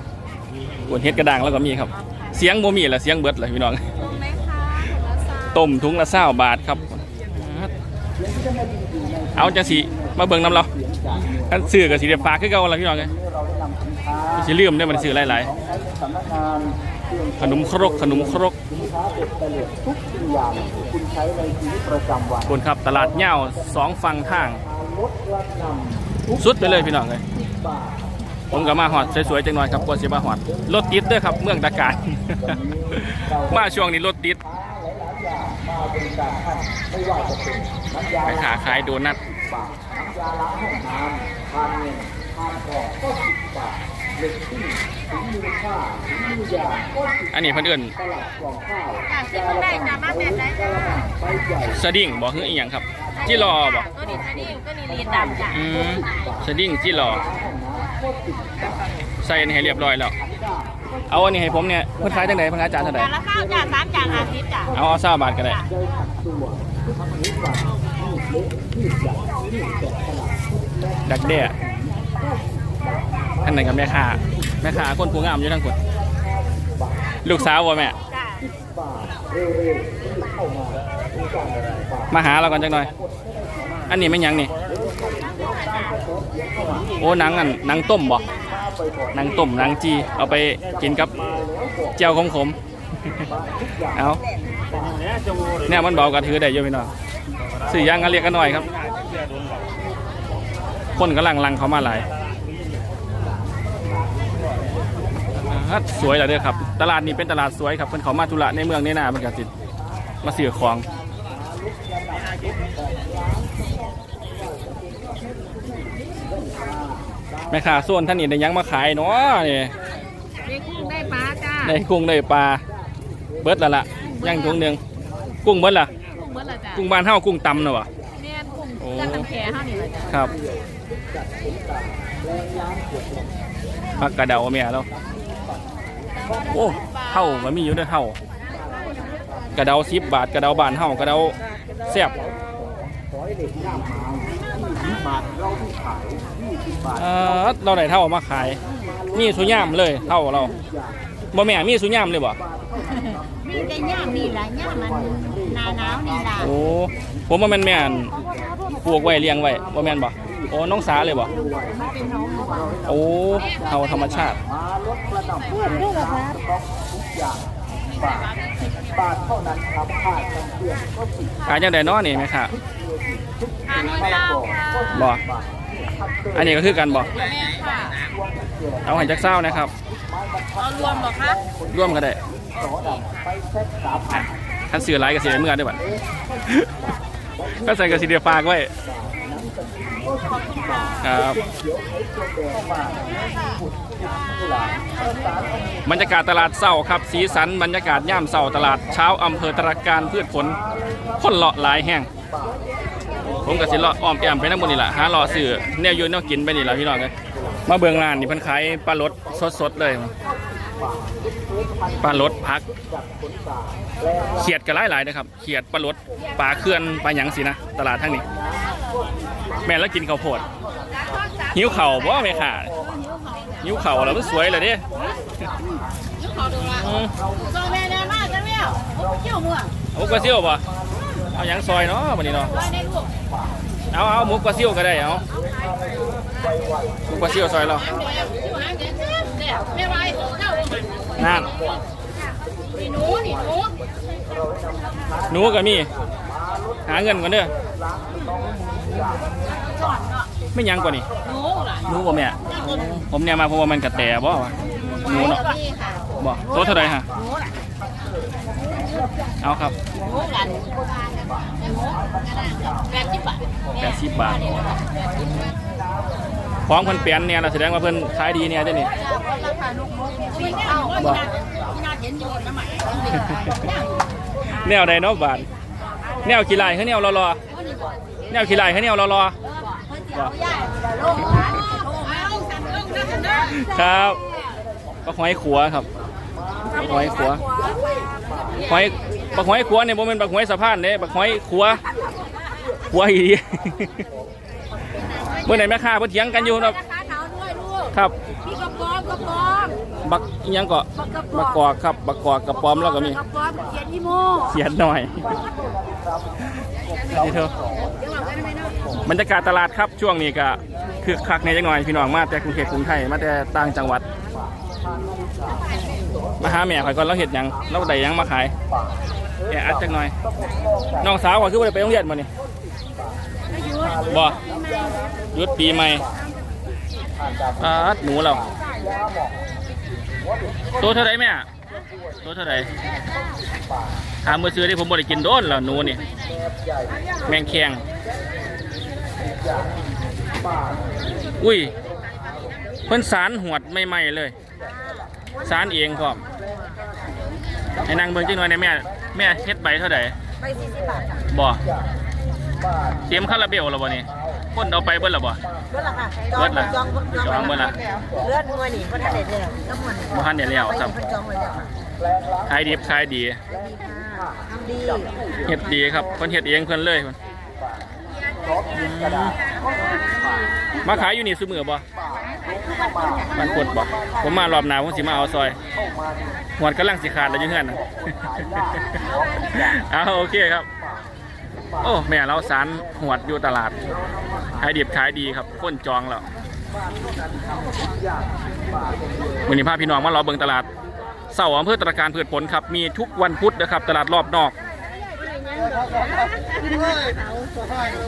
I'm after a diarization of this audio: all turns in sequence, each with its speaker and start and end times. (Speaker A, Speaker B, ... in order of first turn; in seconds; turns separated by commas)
Speaker A: 0.9-3.9, Speaker B: 4.0-5.5, Speaker A: 5.5-7.7, Speaker A: 9.3-10.7, Speaker A: 11.3-13.1, Speaker A: 14.3-15.5, Speaker A: 17.4-18.6, Speaker C: 20.5-20.8, Speaker A: 22.4-24.6, Speaker A: 26.3-27.2, Speaker A: 28.5-34.4, Speaker A: 38.2-39.2, Speaker A: 47.3-48.0, Speaker B: 49.1-51.1, Speaker A: 51.6-53.9, Speaker B: 53.2-55.6, Speaker A: 55.5-57.3, Speaker A: 59.2-60.1, Speaker A: 61.1-63.1, Speaker B: 62.8-64.7, Speaker A: 64.7-65.6, Speaker A: 71.0-71.5, Speaker A: 73.4-75.8, Speaker A: 77.2-78.0, Speaker B: 78.1-78.4, Speaker A: 82.1-82.9, Speaker A: 83.9-84.5, Speaker B: 85.0-86.2, Speaker A: 87.0-88.2, Speaker B: 88.3-88.7, Speaker A: 89.1-91.1, Speaker A: 92.0-92.6, Speaker A: 93.9-94.2, Speaker A: 95.6-96.9, Speaker A: 97.6-98.7, Speaker A: 101.0-102.1, Speaker A: 105.4-109.5, Speaker A: 110.2-110.8, Speaker A: 117.5-119.7, Speaker B: 120.4-121.7, Speaker A: 121.6-122.6, Speaker A: 123.4-124.8, Speaker B: 124.2-124.6, Speaker A: 125.4-125.9, Speaker B: 126.2-126.8, Speaker A: 126.7-127.9, Speaker B: 128.2-130.1, Speaker A: 128.8-129.3, Speaker A: 130.1-130.3, Speaker A: 134.0-134.9, Speaker A: 136.4-138.2, Speaker A: 139.5-142.2, Speaker A: 146.9-148.6, Speaker A: 149.1-150.5, Speaker A: 151.3-152.4, Speaker B: 153.0-156.5, Speaker C: 154.5-155.7, Speaker A: 156.3-158.1, Speaker A: 158.8-161.3, Speaker B: 161.7-162.8, Speaker A: 162.8-164.4, Speaker B: 165.4-166.3, Speaker C: 165.9-166.4, Speaker B: 167.8-169.2, Speaker A: 171.4-172.5, Speaker B: 173.7-175.0, Speaker A: 174.9-175.2, Speaker A: 176.3-177.1, Speaker B: 177.1-178.2, Speaker A: 178.8-179.7, Speaker B: 180.5-181.4, Speaker A: 181.7-182.2, Speaker B: 182.5-183.3, Speaker A: 184.1-185.8, Speaker A: 187.6-188.7, Speaker A: 191.0-191.4, Speaker A: 195.8-200.6, Speaker A: 201.2-202.1, Speaker A: 203.4-207.1, Speaker A: 207.7-210.1, Speaker A: 212.0-212.6, Speaker A: 214.3-218.2, Speaker A: 219.6-220.4, Speaker B: 221.0-221.5, Speaker A: 221.5-222.7, Speaker B: 222.8-223.7, Speaker A: 223.6-224.8, Speaker B: 226.2-229.7, Speaker A: 226.6-227.1, Speaker A: 229.9-230.6, Speaker A: 231.3-232.5, Speaker B: 232.5-233.1, Speaker A: 233.9-235.2, Speaker A: 237.1-237.9, Speaker B: 237.8-241.6, Speaker A: 241.2-241.6, Speaker B: 242.7-243.8, Speaker A: 245.3-245.9, Speaker A: 246.8-247.5, Speaker B: 249.9-250.2, Speaker A: 250.5-251.1, Speaker B: 251.2-251.8, Speaker A: 251.8-255.5, Speaker B: 254.8-257.5, Speaker A: 256.2-257.1, Speaker A: 259.4-259.8, Speaker B: 260.0-265.0, Speaker A: 263.8-264.5, Speaker A: 266.6-268.9, Speaker B: 268.9-273.9, Speaker A: 270.9-271.3, Speaker A: 274.5-275.5, Speaker A: 276.2-277.4, Speaker B: 277.5-277.9, Speaker A: 278.3-279.3, Speaker B: 279.5-284.5, Speaker A: 283.3-284.2, Speaker A: 285.0-285.9, Speaker A: 286.7-287.4, Speaker B: 286.7-288.6, Speaker A: 288.6-291.8, Speaker A: 292.9-294.0, Speaker B: 295.1-295.5, Speaker A: 295.4-296.8, Speaker B: 296.6-299.8, Speaker A: 300.0-303.2, Speaker B: 300.9-301.5, Speaker B: 302.7-304.5, Speaker A: 304.4-305.3, Speaker A: 307.1-307.5, Speaker B: 308.0-308.8, Speaker A: 309.0-314.0, Speaker A: 316.4-318.5, Speaker A: 319.5-320.1, Speaker A: 321.0-322.3, Speaker B: 323.6-324.9, Speaker A: 324.1-324.4, Speaker A: 325.3-326.0, Speaker A: 327.6-328.4, Speaker A: 330.8-331.5, Speaker A: 332.2-332.7, Speaker A: 334.2-336.0, Speaker A: 337.2-337.8, Speaker A: 341.4-341.7, Speaker A: 342.9-344.3, Speaker A: 345.4-346.2, Speaker A: 347.8-350.1, Speaker B: 350.4-351.2, Speaker A: 351.3-351.6, Speaker A: 353.1-355.4, Speaker B: 355.7-357.2, Speaker A: 356.3-357.8, Speaker C: 357.8-358.1, Speaker B: 357.9-360.1, Speaker C: 358.9-359.7, Speaker A: 360.1-360.9, Speaker B: 360.9-361.7, Speaker C: 361.0-361.7, Speaker A: 362.5-363.4, Speaker C: 364.1-365.1, Speaker B: 364.5-365.1, Speaker A: 365.4-367.2, Speaker A: 368.7-369.4, Speaker A: 370.8-371.8, Speaker A: 373.3-375.6, Speaker A: 376.6-380.7, Speaker A: 381.8-383.8, Speaker A: 384.6-386.2, Speaker A: 389.4-390.7, Speaker A: 391.3-394.5, Speaker B: 395.5-397.1